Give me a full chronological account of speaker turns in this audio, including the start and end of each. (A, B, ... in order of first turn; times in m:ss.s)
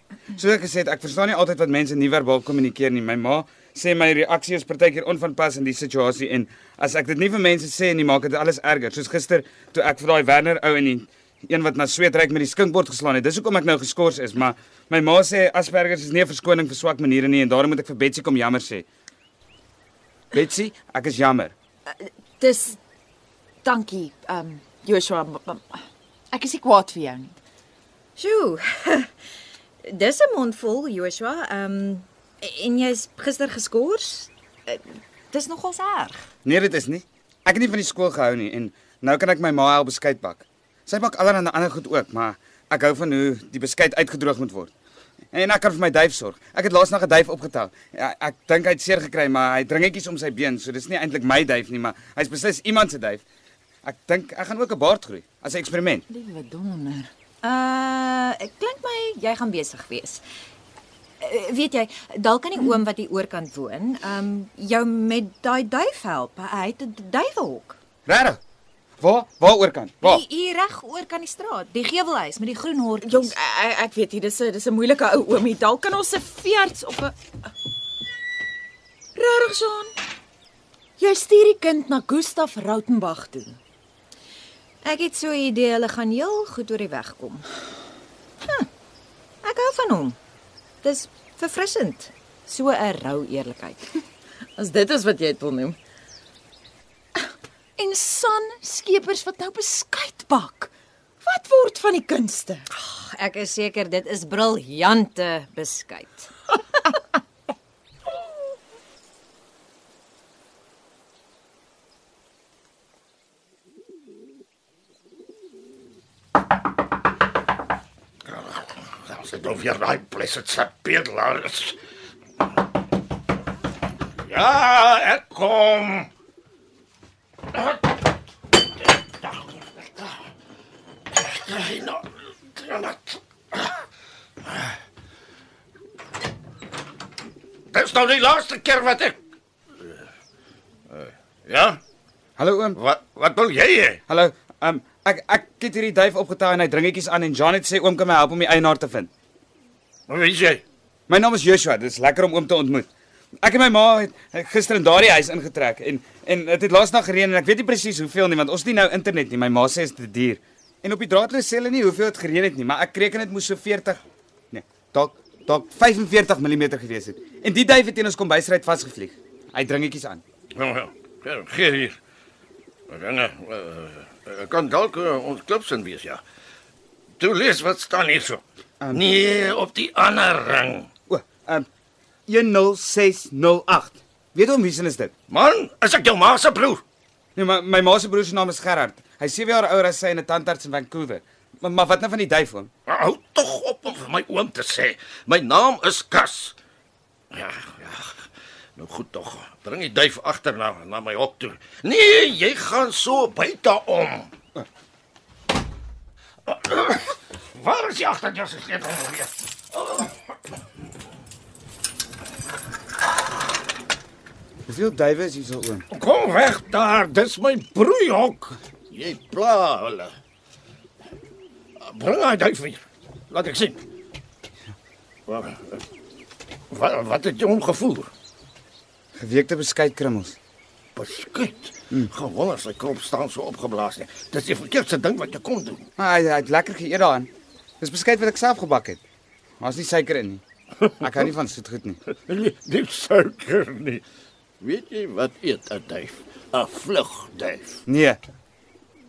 0:00.3-0:18.8 A
0:20.3-0:21.5 A
0:21.9-0:22.8 B
0:23.6-0:25.8 B
0:26.3-0:27.4 B
0:28.2-0:29.1 C
0:29.8-0:34.8 C
0:35.3-0:36.2 C
0:36.4-0:44.7 A
0:45.3-0:53.2 A
0:53.8-0:56.0 A
0:56.1-0:57.1 B
0:57.4-1:00.2 C
1:01.2-1:07.8 C
1:08.0-1:08.4 A
1:09.0-1:10.2 A
1:10.0-1:13.3 C
1:13.0-1:17.5 B
1:19.2-1:19.9 B
1:21.0-1:23.6 B
1:24.8-1:27.4 C
1:29.4-1:30.2 C
1:30.8-1:33.9 C
1:34.6-1:35.7 B
1:37.8-1:40.7 B
1:41.2-1:42.6 B
1:42.7-1:46.3 C
1:58.2-2:01.8 D
2:04.3-2:06.1 D
2:09.2-2:10.1 D
2:11.1-2:13.8 D
2:14.4-2:14.7 D
2:17.7-2:19.2 D
2:20.9-2:21.8 D
2:22.4-2:22.8 A
2:22.8-2:24.0 D
2:24.1-2:29.1 A
2:30.1-2:30.6 D
2:31.1-2:32.9 A
2:33.4-2:44.0 A
2:44.5-2:50.2 A
2:50.5-2:52.0 D
2:52.9-2:56.2 D
2:57.2-2:58.4 D
2:58.9-3:00.9 D
3:01.1-3:01.7 A
3:02.3-3:05.1 A
3:05.3-3:06.8 D
3:07.4-3:12.7 A
3:12.9-3:16.5 D
3:17.3-3:24.3 D
3:26.5-3:30.1 D
3:34.6-3:35.8 A
3:35.9-3:40.1 D
3:41.8-3:43.8 D
3:45.3-3:45.8 D
3:46.7-3:48.1 D
3:49.2-3:50.4 A
3:51.0-3:55.8 D
3:56.0-3:59.0 A
3:59.6-4:00.4 A
4:01.0-4:02.0 A
4:02.3-4:04.0 D
4:04.6-4:07.8 D
4:07.9-4:08.2 A